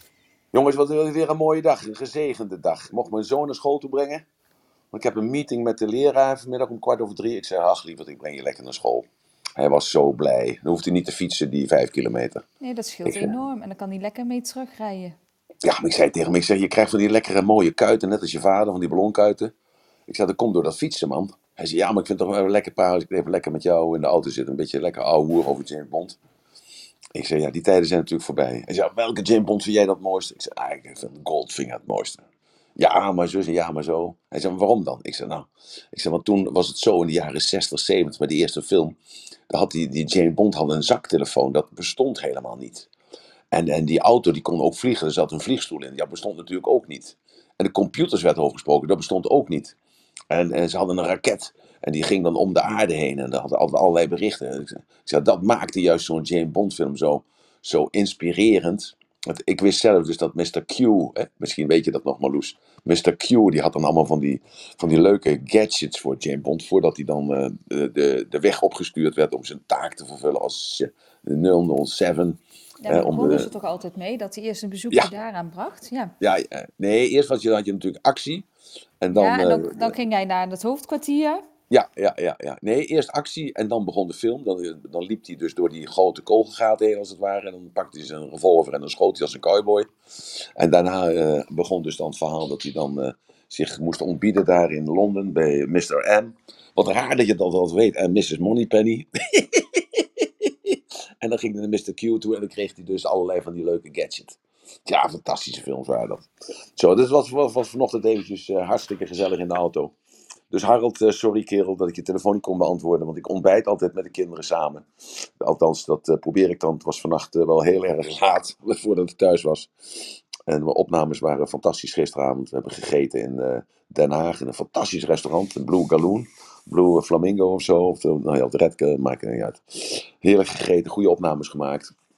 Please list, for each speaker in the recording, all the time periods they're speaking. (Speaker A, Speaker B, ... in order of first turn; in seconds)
Speaker A: 0.5-4.2, 4.9-12.4, 13.0-13.3, 15.6-19.5, 20.1-26.2, 27.1-32.2, 32.8-39.0, 39.5-42.9, 43.5-49.7, 50.3-73.5, 76.2-78.5, 79.0-79.9, 81.7-109.9, 110.5-131.9
Speaker B: 12.6-15.2, 72.8-76.1, 79.1-81.4